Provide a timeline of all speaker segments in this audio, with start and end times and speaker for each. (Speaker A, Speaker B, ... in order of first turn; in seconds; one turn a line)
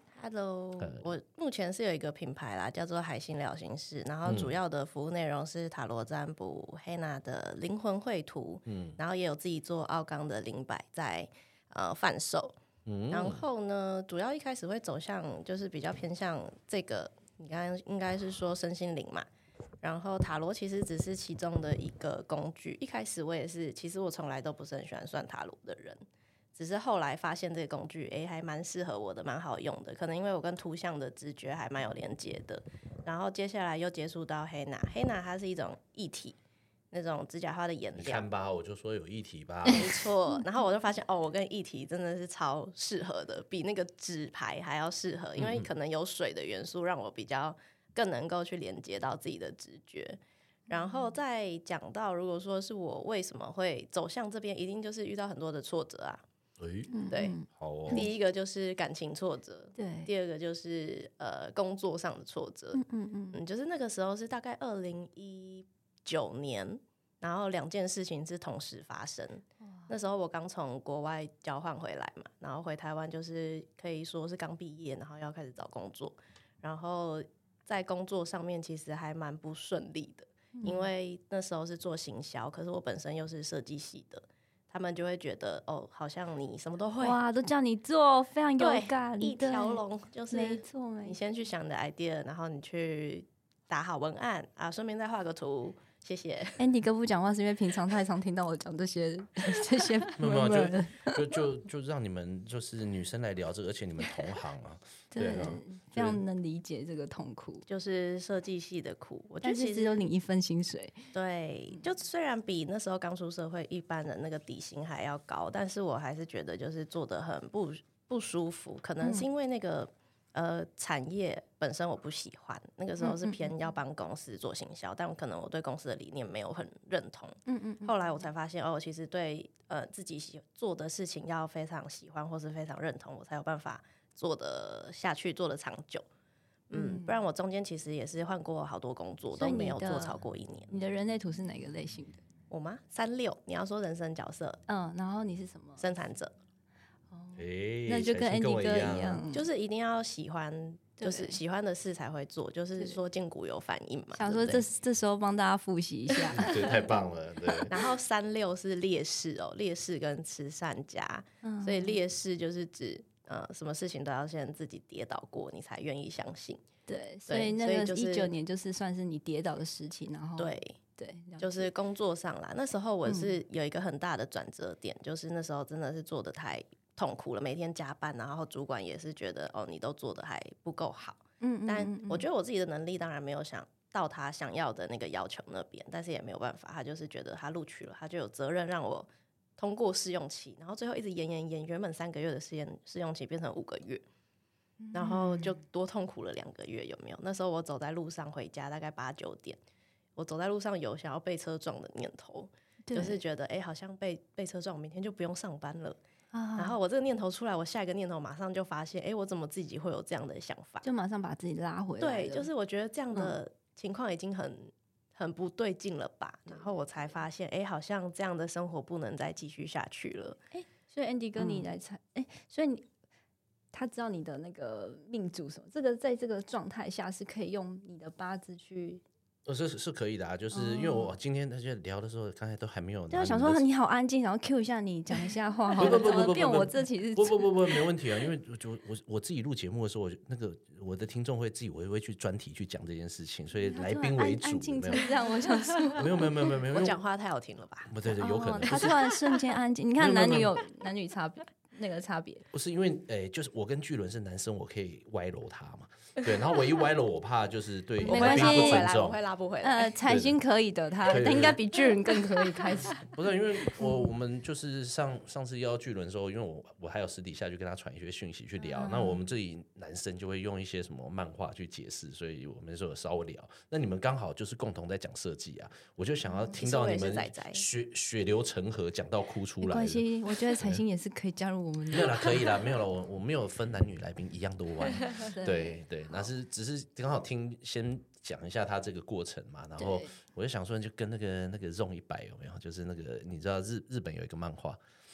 Speaker A: 0.1-12.6
Speaker B: 0.8-1.1
Speaker B: 4.2-4.5
Speaker B: 8.7-9.0
Speaker B: 12.8-13.4
Speaker A: 13.1-19.3
Speaker A: 19.8-26.0
Speaker A: 26.5-36.4
Speaker A: 36.9-38.2
Speaker B: 38.0-39.9
Speaker A: 39.6-56.2
Speaker B: 45.4-45.7
Speaker C: 50.7-51.1
Speaker B: 56.6-56.9
Speaker C: 56.9-58.1
Speaker A: 57.1-57.3
Speaker B: 57.5-58.1
Speaker A: 57.9-62.8
Speaker C: 59.8-60.1
Speaker C: 62.7-63.4
Speaker A: 63.3-87.2
Speaker C: 69.6-69.9
Speaker C: 80.5-80.9
Speaker C: 87.0-91.2
Speaker A: 88.6-96.6
Speaker C: 96.6-101.3
Speaker B: 100.2-106.2
Speaker C: 105.1-107.6
Speaker A: 107.7-110.1
Speaker C: 109.4-110.9
Speaker A: 111.1-136.1
Speaker C: 119.0-119.3
Speaker C: 123.0-123.5
Speaker C: 127.5-128.2
Speaker A: 136.7-140.8
Speaker C: 136.7-137.2
Speaker C: 139.4-142.2
Speaker A: 142.5-144.6
Speaker C: 144.7-145.8
Speaker A: 145.8-146.3
Speaker C: 147.1-149.5
Speaker B: 147.3-149.2
Speaker A: 149.3-154.6
Speaker C: 151.0-151.4
Speaker C: 154.1-156.9
Speaker A: 156.1-156.5
Speaker B: 156.3-157.7
Speaker A: 157.7-166.7
Speaker C: 161.4-162.0
Speaker C: 166.9-171.7
Speaker A: 167.3-168.3
Speaker A: 170.4-170.8
Speaker A: 171.4-194.0
Speaker C: 173.0-173.4
Speaker C: 181.4-182.2
Speaker C: 194.8-195.6
Speaker A: 194.9-199.6
Speaker A: 200.2-206.0
Speaker C: 202.9-203.2
Speaker C: 206.3-206.8
Speaker A: 206.6-210.8
Speaker C: 210.8-212.5
Speaker A: 212.0-220.4
Speaker C: 213.1-213.4
Speaker C: 220.5-222.9
Speaker A: 221.4-221.7
Speaker C: 223.7-229.0
Speaker B: 229.4-233.6
Speaker C: 230.5-231.2
Speaker C: 233.1-237.9
Speaker B: 235.8-245.1
Speaker C: 243.6-246.3
Speaker A: 245.9-247.9
Speaker B: 245.9-247.0
Speaker B: 247.9-249.0
Speaker C: 248.0-252.4
Speaker A: 248.7-249.5
Speaker B: 250.0-250.5
Speaker B: 252.5-259.2
Speaker C: 258.0-259.0
Speaker A: 258.0-260.0
Speaker C: 259.6-263.1
Speaker B: 260.1-260.3
Speaker B: 261.0-261.6
Speaker B: 263.0-280.0
Speaker C: 263.8-264.1
Speaker C: 268.6-269.2
Speaker C: 276.2-276.5
Speaker A: 276.5-277.6
Speaker C: 279.6-282.6
Speaker B: 281.9-294.8
Speaker C: 285.1-285.8
Speaker C: 289.8-290.1